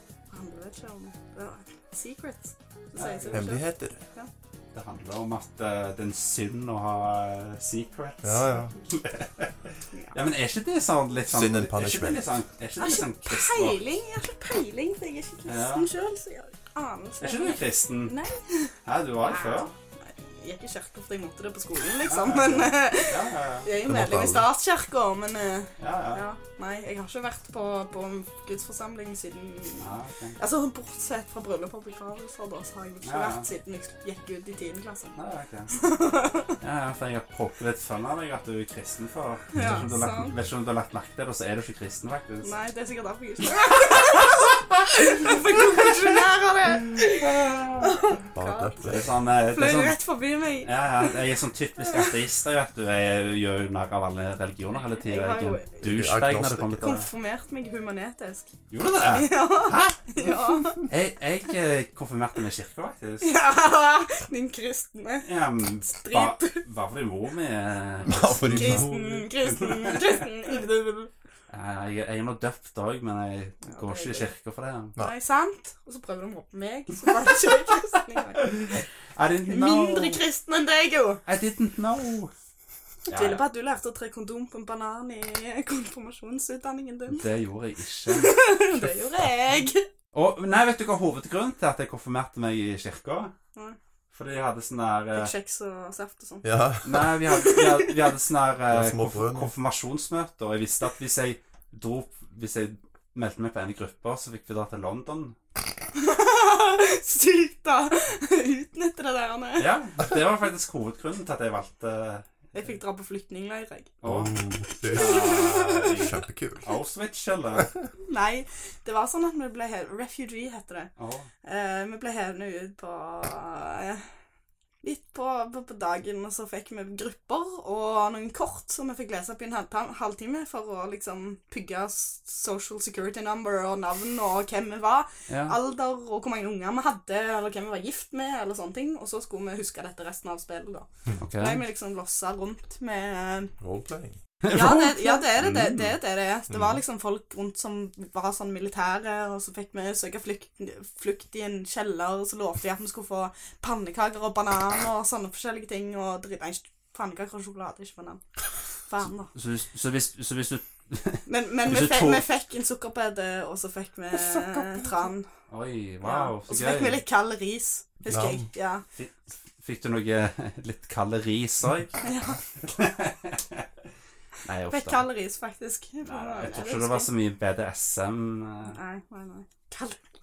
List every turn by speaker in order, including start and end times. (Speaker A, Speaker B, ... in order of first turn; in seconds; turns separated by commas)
Speaker A: 0.3-4.3, Speaker B: 3.0-3.5, Speaker C: 3.3-4.0, Speaker B: 4.7-13.8, Speaker C: 8.2-8.7, Speaker C: 11.3-12.3, Speaker A: 12.8-29.9, Speaker B: 15.5-15.9, Speaker B: 17.2-18.1, Speaker B: 18.9-19.7, Speaker B: 22.1-23.7, Speaker C: 23.9-24.5, Speaker B: 25.8-26.2, Speaker B: 29.8-30.4, Speaker A: 30.4-35.2, Speaker B: 33.0-33.5, Speaker B: 35.2-35.7, Speaker A: 35.7-36.6, Speaker B: 36.6-42.5, Speaker A: 39.5-40.3, Speaker C: 39.6-40.1, Speaker A: 42.4-51.2, Speaker B: 47.2-48.0, Speaker C: 48.3-49.1, Speaker B: 48.8-50.0, Speaker B: 50.6-57.1, Speaker A: 55.0-55.8, Speaker C: 55.8-57.0, Speaker A: 56.8-58.5, Speaker B: 58.7-63.3, Speaker A: 59.0-60.9, Speaker A: 63.2-65.3, Speaker B: 65.2-70.3, Speaker A: 65.8-66.6, Speaker C: 68.0-69.3, Speaker A: 68.4-71.1, Speaker B: 71.5-75.0, Speaker A: 73.7-74.3, Speaker A: 75.0-78.8, Speaker B: 78.4-80.2, Speaker A: 79.5-81.2, Speaker B: 81.3-82.3, Speaker B: 83.1-83.4, Speaker A: 83.1-87.2, Speaker B: 87.1-88.4, Speaker A: 88.1-89.9, Speaker B: 90.1-93.3, Speaker B: 94.1-95.3, Speaker A: 95.1-96.5, Speaker C: 96.4-97.1, Speaker B: 96.8-105.4, Speaker A: 97.2-97.9, Speaker C: 98.7-99.5, Speaker A: 106.0-109.7, Speaker B: 109.6-112.7, Speaker A: 112.5-114.0, Speaker B: 114.0-117.7, Speaker C: 114.0-116.7, Speaker A: 114.7-116.1, Speaker A: 118.0-120.9, Speaker B: 121.0-121.3, Speaker A: 121.4-124.1, Speaker A: 124.8-143.5, Speaker B: 135.3-135.6, Speaker B: 141.2-141.6, Speaker C: 143.6-144.2, Speaker B: 144.4-145.9, Speaker A: 144.5-158.2, Speaker A: 158.9-159.3, Speaker B: 159.3-162.2, Speaker A: 161.3-165.3, Speaker C: 164.5-164.8, Speaker B: 165.5-167.0, Speaker A: 166.0-168.8, Speaker C: 168.1-168.5, Speaker B: 168.9-172.0, Speaker A: 172.0-172.4, Speaker B: 172.6-173.7, Speaker B: 174.4-175.1, Speaker A: 174.7-177.1, Speaker B: 176.0-178.8, Speaker A: 178.7-180.0